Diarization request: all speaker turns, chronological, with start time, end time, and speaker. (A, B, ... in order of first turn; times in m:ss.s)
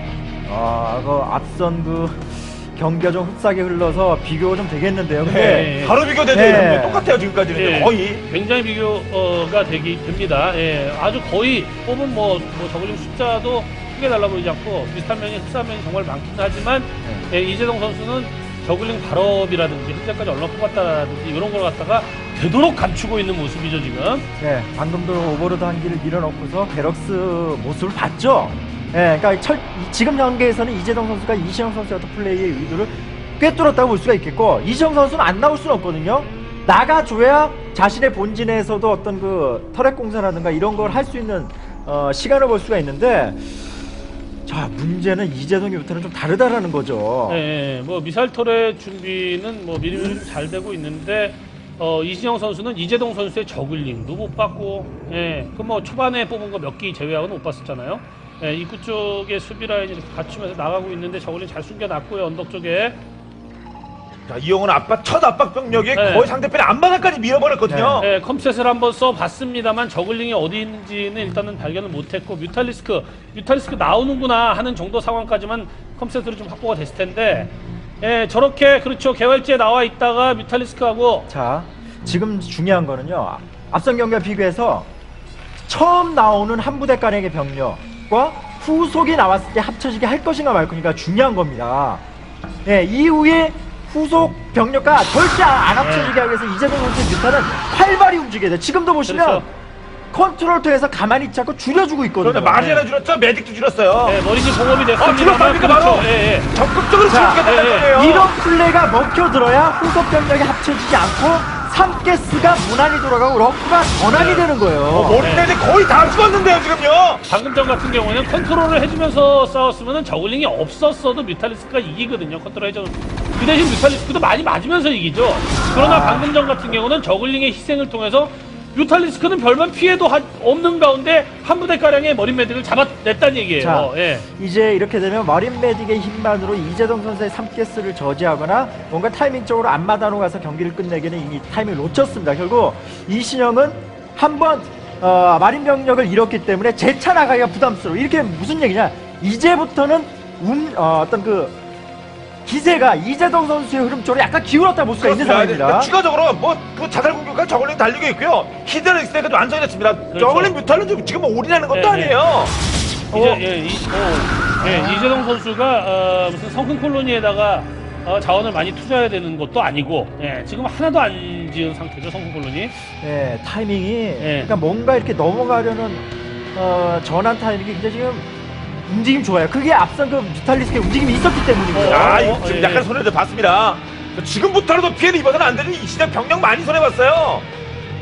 0:00.4-0:05.7 A
0:05.2-0:08.2 B
0:05.3-0:06.0 C
0:06.3-0:07.1 A
0:07.6-0:24.3 C
0:24.4-0:43.8 A
0:44.5-0:47.4 A
0:47.3-1:03.0 C
1:04.3-1:08.1 B
1:06.0-1:06.3 C
1:07.7-1:08.1 A
1:08.0-1:21.3 C
1:21.3-1:24.9 A
1:25.7-1:32.1 A
1:32.6-1:39.5 A
1:35.8-1:36.1 C
1:39.1-1:39.5 C
1:40.1-1:42.7 A
1:42.2-1:44.2 B
1:44.0-1:46.5 C
1:45.0-1:48.3 B
1:47.1-1:55.3 A
1:47.4-1:47.9 C
1:54.1-1:54.5 C
1:54.9-1:57.2 B
1:55.2-1:55.5 C
1:57.3-2:14.3 C
2:05.7-2:06.3 A
2:13.6-2:31.6 A
2:32.4-2:35.9 A
2:35.0-2:42.6 B
2:40.1-2:40.5 C
2:41.7-2:42.2 C
2:43.1-2:43.4 A
2:43.1-2:52.8 C
2:44.6-2:45.2 A
2:52.9-2:58.3 A
2:54.2-2:54.5 C
2:58.8-3:02.4 A
3:01.7-3:02.9 C
3:01.8-3:07.5 B